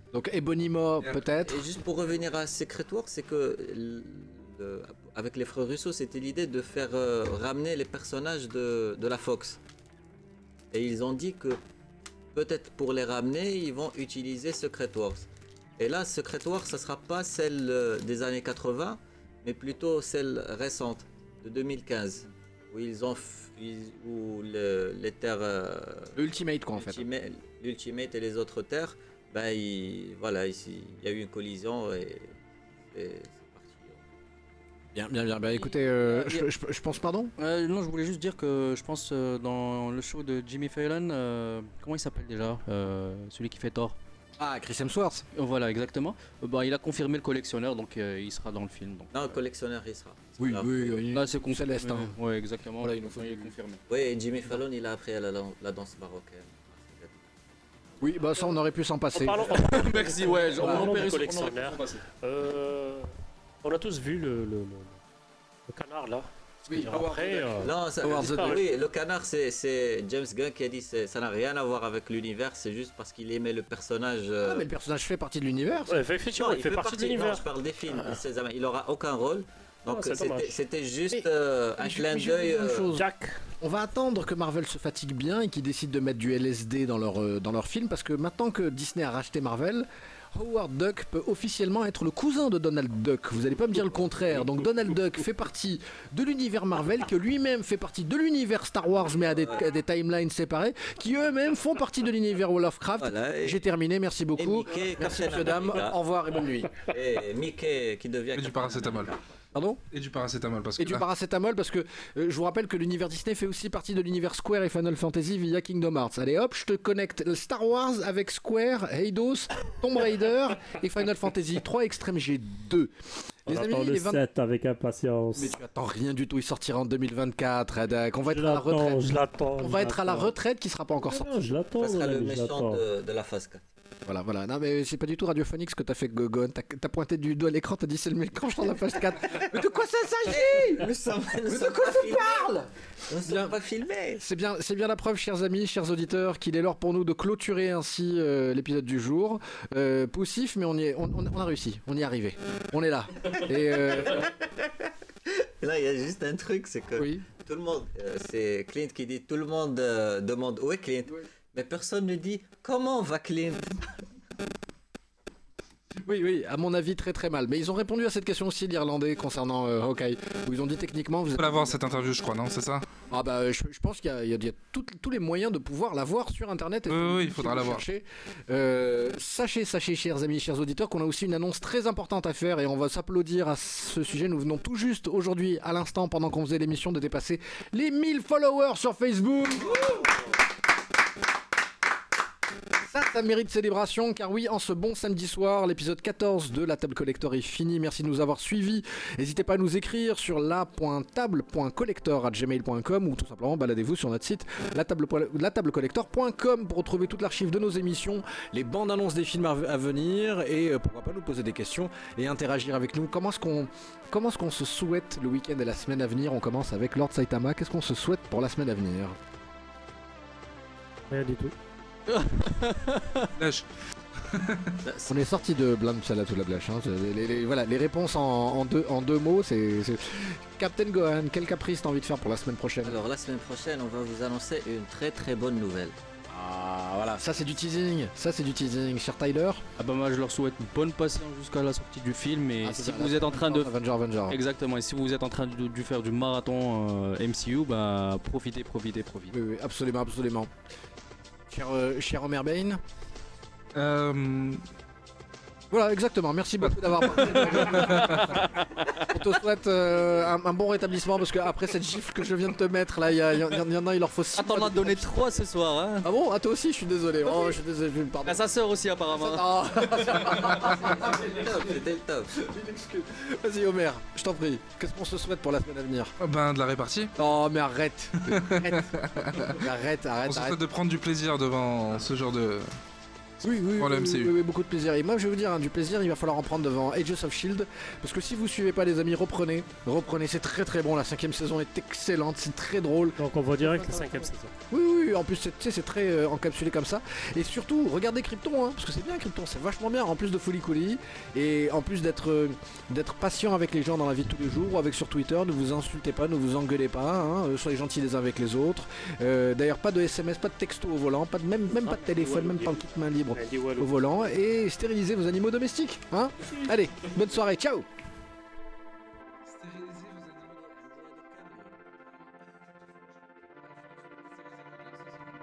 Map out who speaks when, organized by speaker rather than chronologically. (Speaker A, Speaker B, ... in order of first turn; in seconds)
Speaker A: 0.1-1.6, 26.1-27.0, 34.9-37.3, 44.4-45.2, 50.4-52.2, 52.8-53.5, 58.0-59.6, 60.5-61.1, 66.7-68.6, 74.4-76.0, 81.8-83.1, 83.6-106.7, 109.5-109.8, 110.8-122.9, 123.5-124.2, 125.3-131.3, 134.1-140.9, 141.4-142.7, 143.2-143.5, 144.2-154.3, 156.9-157.2, 165.9-171.8, 173.1-190.1, 192.8-219.2, 225.1-233.0, 236.3-239.6, 242.6-244.4, 249.3-250.5, 251.5-252.8, 255.7-265.3, 266.0-268.5, 269.1-276.1, 277.2-280.6, 283.4-317.9
Speaker B: 1.0-9.6, 10.7-11.6, 12.3-15.3, 15.8-26.2, 26.7-32.4, 32.9-34.0, 49.1-51.0, 53.9-57.3, 67.6-74.7, 76.3-82.9, 99.4-99.6, 103.0-103.6, 104.3-106.0, 106.9-109.1, 131.8-133.6, 139.2-139.5, 140.2-142.5, 143.1-144.2, 153.8-163.8, 224.8-225.3, 232.8-235.9, 270.7-272.3, 320.4-321.8
Speaker C: 35.5-36.5, 37.4-44.0, 45.3-49.1, 51.1-53.8, 59.5-62.0, 222.1-223.3, 239.8-243.7, 244.3-249.3, 264.3-266.1, 268.2-270.6
Speaker D: 59.1-63.1, 63.6-65.0, 65.7-68.6, 75.9-77.4, 79.9-80.6, 82.9-83.4, 123.5-125.5, 128.2-130.3, 131.0-132.8, 221.1-221.5, 293.2-294.5, 311.8-314.4
Speaker E: 108.3-109.1, 109.9-111.0, 171.3-172.9, 176.9-177.8, 223.4-224.8, 253.7-254.6, 256.6-258.4, 276.2-277.1, 278.2-279.6, 280.3-282.7, 283.8-284.3, 319.5-320.6, 324.5-325.1